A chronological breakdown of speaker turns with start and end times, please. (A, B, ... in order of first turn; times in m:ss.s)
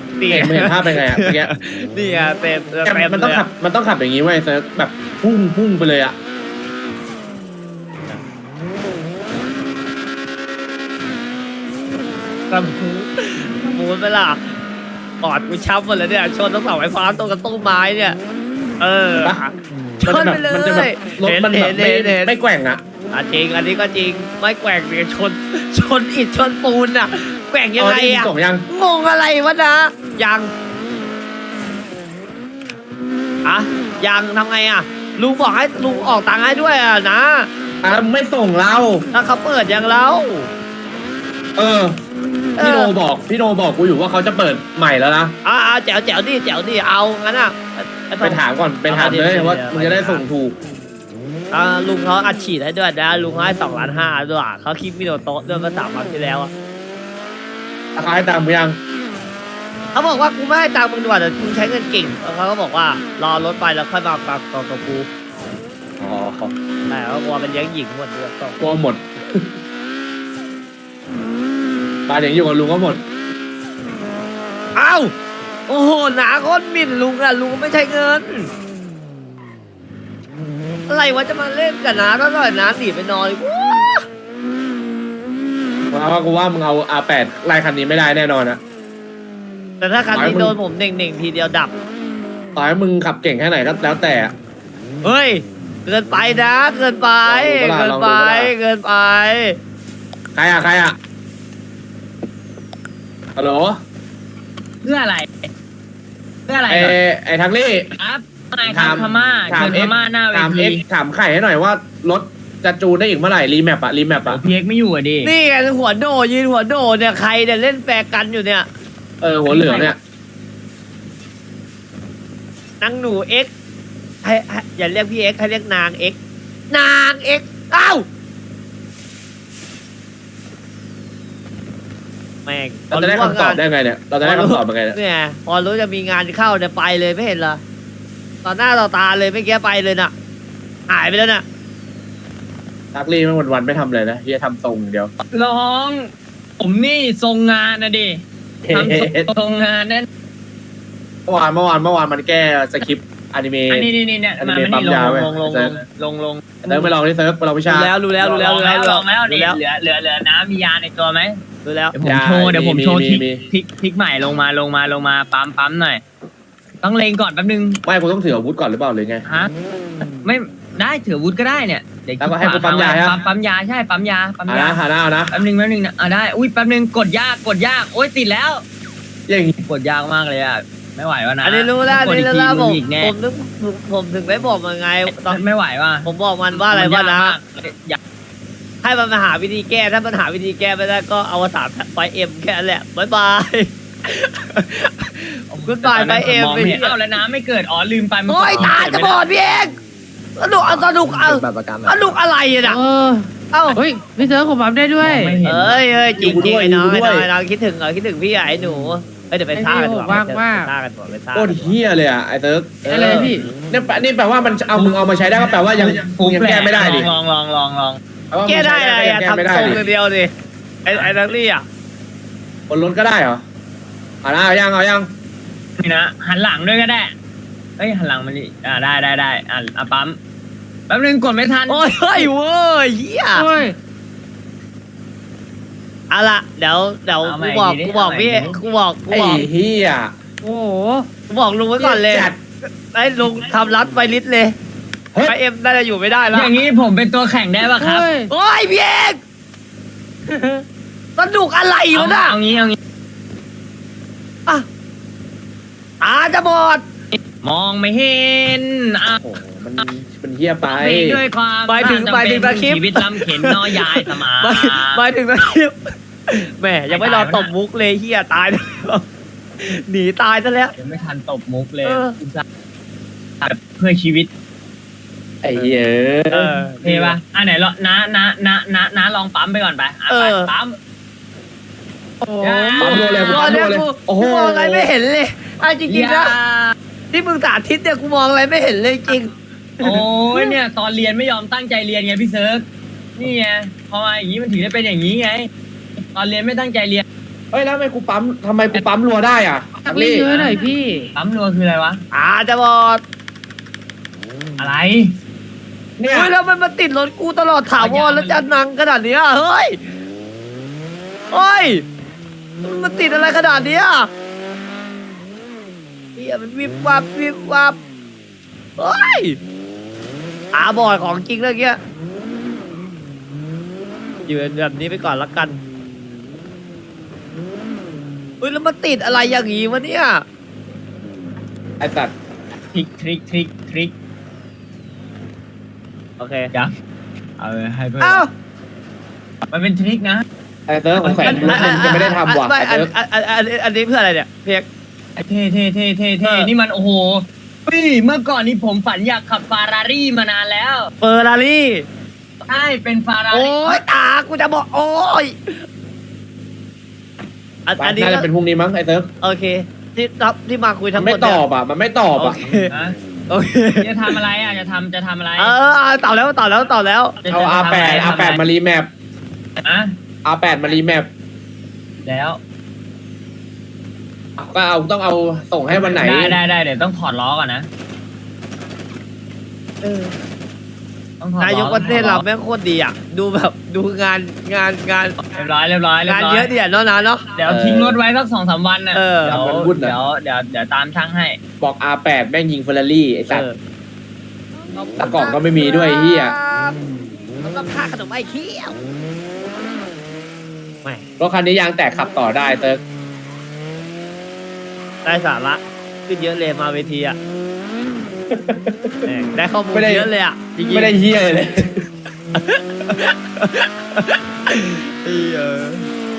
0:00.2-0:03.5 A
0:00.3-0:01.5 B
0:02.8-0:06.2 B
0:12.5-0:14.4 A
0:15.2-0:18.2 A
0:18.8-0:22.3 A
0:20.0-0:22.8 B
0:23.1-0:30.5 A
0:27.8-0:28.6 B
0:33.4-0:37.5 A
0:37.8-0:39.0 B
0:39.1-0:40.5 A
0:41.6-0:42.0 B
0:42.6-0:42.9 A
0:42.6-0:45.4 B
0:45.4-0:50.3 A
0:48.2-0:50.6 B
0:51.5-0:56.5 A
0:58.0-0:58.8 B
0:59.9-1:05.1 A
1:06.0-1:06.5 B
1:06.9-1:08.6 A
1:08.6-1:09.5 B
1:12.1-1:13.0 B
1:14.8-1:15.1 A
1:15.7-1:18.5 A
1:20.9-1:24.0 A
1:25.9-1:28.6 B
1:29.8-1:31.7 A
1:30.1-1:30.6 B
1:32.6-1:34.3 B
1:35.0-1:39.6 A
1:37.3-1:38.5 B
1:40.4-1:41.0 B
1:43.4-1:43.8 B
1:44.8-1:45.5 C
1:46.5-1:47.0 C
1:46.7-1:47.9 B
1:48.0-1:50.8 C
1:48.7-1:54.4 B
1:54.3-1:55.3 C
1:55.2-1:58.7 A
1:59.2-2:00.0 B
1:59.5-2:00.0 C
2:02.8-2:03.5 A
2:04.2-2:06.2 A
2:06.7-2:08.0 A
2:12.5-2:13.6 A
2:12.9-2:15.0 B
2:14.2-2:17.6 A
2:18.4-2:20.1 A
2:20.9-2:21.4 A
2:22.9-2:25.1 B
2:25.3-2:30.1 C
2:28.6-2:29.3 B
2:31.3-2:35.8 B
2:33.7-2:36.8 C
2:36.6-2:37.9 B
2:37.7-2:39.6 A
2:38.2-2:41.4 C
2:41.6-2:41.9 A
2:41.9-2:46.0 C
2:42.0-2:43.4 B
2:46.8-2:47.8 C
2:47.8-2:49.2 B
2:50.2-2:54.8 C
2:52.2-2:53.2 B
2:54.5-2:55.4 B
2:55.3-2:58.6 C
2:59.3-2:59.6 B
2:59.6-3:03.1 C
3:01.4-3:05.4 A
3:05.1-3:08.0 C
3:06.0-3:07.4 A
3:08.8-3:17.0 A
3:15.5-3:19.2 C
3:18.3-3:19.8 A
3:20.4-3:22.8 A
3:21.4-3:21.7 B
3:22.6-3:25.4 D
3:23.5-3:23.8 A
3:25.0-3:25.8 C
3:25.4-3:31.8 A
3:26.2-3:27.3 B
3:29.5-3:30.7 D
3:31.3-3:37.1 B
3:32.8-3:33.5 D
3:35.6-3:38.0 C
3:38.3-3:39.8 B
3:38.4-3:40.3 A
3:40.8-3:41.6 A
3:40.9-3:41.2 C
3:42.7-3:43.4 B
3:44.2-3:45.1 B
3:45.8-3:47.1 C
3:47.8-3:50.2 C
3:50.9-3:52.3 C
3:51.7-3:53.5 A
3:53.4-3:53.8 D
3:56.1-3:59.5 A
3:57.2-3:58.6 C
3:59.1-4:00.1 B
4:00.4-4:01.1 D
4:01.3-4:02.3 A
4:01.8-4:02.4 B
4:02.9-4:04.6 A
4:05.2-4:06.6 A
4:06.3-4:08.2 C
4:07.8-4:08.3 D
4:08.3-4:09.2 A
4:10.3-4:10.6 D
4:11.2-4:12.4 A
4:11.9-4:12.8 C
4:16.0-4:16.8 A
4:17.1-4:19.2 C
4:19.1-4:21.2 B
4:20.6-4:25.0 C
4:21.7-4:29.0 A
4:26.9-4:27.5 C
4:29.6-4:30.7 A
4:30.8-4:32.4 C
4:31.8-4:32.2 A
4:33.4-4:34.3 C
4:35.4-4:37.2 B
4:35.5-4:36.8 A
4:36.8-4:40.8 C
4:40.1-4:40.5 A
4:42.2-4:43.0 D
4:42.4-4:43.6 C
4:42.8-4:44.9 B
4:43.3-4:46.4 A
4:45.9-4:46.8 C
4:47.1-4:50.6 A
4:49.8-4:52.6 C
4:53.2-4:55.5 C
4:56.1-4:57.0 C
4:57.5-5:00.3 B
4:59.8-5:01.1 D
5:00.2-5:02.0 C
5:02.1-5:03.0 A
5:04.6-5:05.1 C
5:06.0-5:06.3 B
5:06.1-5:09.8 A
5:07.8-5:08.5 C
5:11.3-5:11.8 A
5:12.6-5:14.1 A
5:16.2-5:17.8 A
5:18.8-5:19.4 A
5:20.5-5:21.8 A
5:24.3-5:25.6 A
5:28.4-5:30.2 A
5:31.8-5:32.1 B
5:32.7-5:33.9 C
5:36.2-5:36.5 A
5:37.4-5:38.2 C
5:38.0-5:38.3 A
5:39.5-5:40.2 C
5:40.7-5:42.9 B
5:41.0-5:42.0 C
5:41.2-5:44.7 A
5:45.2-5:50.9 C
5:46.2-5:46.5 A
5:51.0-5:51.9 A
5:52.5-5:53.8 C
5:53.3-5:55.6 A
5:57.7-5:58.3 A
5:57.8-5:59.1 B
5:59.2-6:01.4 A
6:01.0-6:02.4 B
6:02.2-6:02.7 A
6:02.7-6:03.0 C
6:03.3-6:04.2 A
6:03.8-6:05.5 C
6:05.4-6:07.2 A
6:07.2-6:08.5 C
6:07.3-6:08.9 B
6:09.6-6:09.9 C
6:10.2-6:11.1 B
6:12.0-6:12.4 C
6:14.4-6:16.4 B
6:15.7-6:17.7 C
6:19.8-6:20.2 A
6:21.2-6:22.2 C
6:21.4-6:25.2 A
6:25.3-6:26.5 C
6:26.0-6:27.4 A
6:27.3-6:31.4 C
6:27.4-6:28.0 B
6:28.9-6:29.4 A
6:29.3-6:30.0 B
6:31.6-6:33.4 B
6:33.3-6:33.6 A
6:34.8-6:36.8 A
6:35.0-6:36.4 B
6:37.4-6:38.8 A
6:41.2-6:42.8 B
6:45.0-6:47.2 A
6:48.3-6:49.0 B
6:49.1-6:51.1 A
6:49.7-6:50.1 B
6:50.6-6:51.8 B
6:52.3-6:55.9 A